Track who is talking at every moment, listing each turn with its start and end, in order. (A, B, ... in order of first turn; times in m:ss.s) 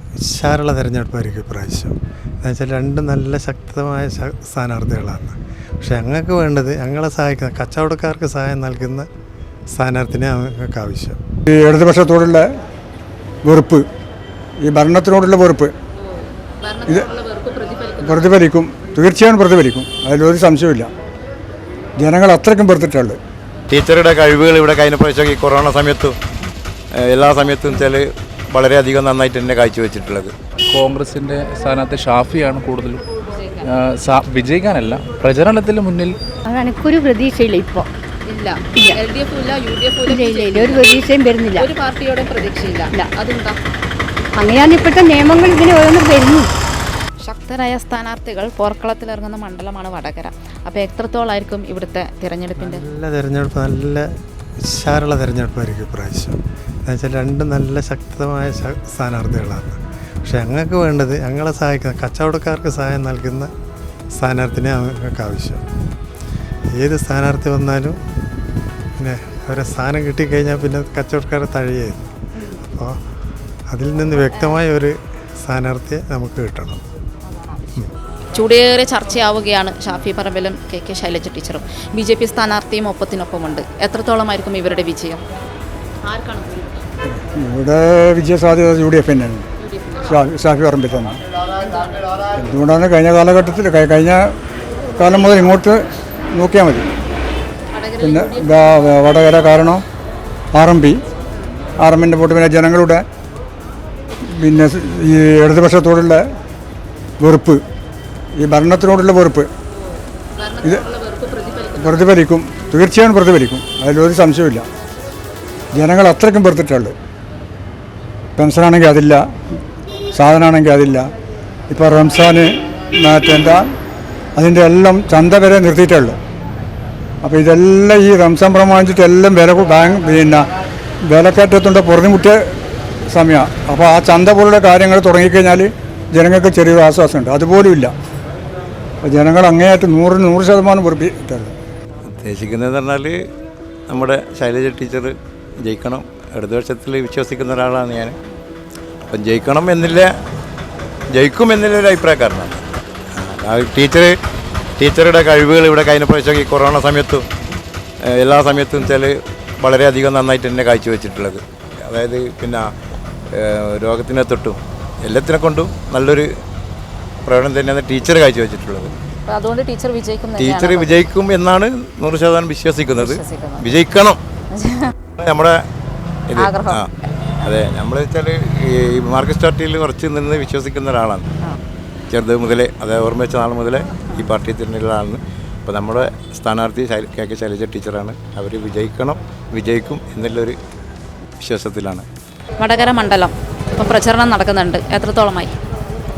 0:00.2-0:09.1 A
0:09.7-0:11.2 A
0:11.5-0:12.5 B
0:13.5-0:13.8 B
0:14.6-0:15.7 B
0:16.1-0:18.3 C
0:18.0-0:20.9 B
0:22.0-0:23.2 B
0:23.7-0:26.2 D
0:27.0-0:30.3 D
0:30.7-0:33.0 E
0:33.3-0:33.7 C
0:33.6-0:36.2 E
0:36.5-0:37.9 F
0:38.3-0:40.9 C
0:38.8-0:39.0 F
0:40.1-0:41.7 F
0:41.6-0:43.6 C
0:44.4-0:46.5 F
0:47.2-0:52.8 C
0:52.7-0:54.0 A
0:54.6-1:03.5 A
1:04.2-1:05.6 A
1:06.8-1:08.0 A
1:09.0-1:12.1 A
1:13.7-1:14.9 A
1:14.2-1:14.6 C
1:15.4-1:16.8 A
1:17.3-1:17.6 C
1:18.4-1:25.2 C
1:26.0-1:26.8 C
1:27.1-1:29.5 B
1:29.6-1:30.2 C
1:30.1-1:31.2 B
1:31.6-1:32.0 C
1:32.4-1:34.2 B
1:35.0-1:35.8 B
1:36.3-1:36.8 B
1:37.7-1:38.9 C
1:38.0-1:39.8 B
1:40.5-1:41.0 B
1:41.8-1:43.0 B
1:44.3-1:46.2 B
1:47.2-1:47.6 B
1:48.4-1:49.5 B
1:50.4-1:52.1 C
1:51.8-1:54.6 B
1:55.7-1:56.9 B
1:58.4-1:59.2 B
2:00.2-2:01.1 B
2:01.7-2:03.6 B
2:04.4-2:06.2 B
2:07.2-2:10.5 B
2:11.1-2:12.4 B
2:13.1-2:17.9 B
2:19.0-2:21.5 B
2:22.1-2:23.2 D
2:23.9-2:28.2 D
2:29.1-2:30.1 D
2:31.1-2:32.6 D
2:33.2-2:34.1 D
2:34.8-2:37.2 D
2:38.1-2:42.7 D
2:43.4-2:46.3 D
2:47.2-2:48.9 D
2:49.3-2:51.0 C
2:50.4-2:54.2 D
2:53.0-2:53.6 C
2:55.2-2:55.6 D
2:56.3-2:56.9 D
2:56.4-2:56.8 C
2:57.4-3:01.3 D
3:02.1-3:10.6 D
3:11.4-3:12.0 D
3:12.6-3:15.5 C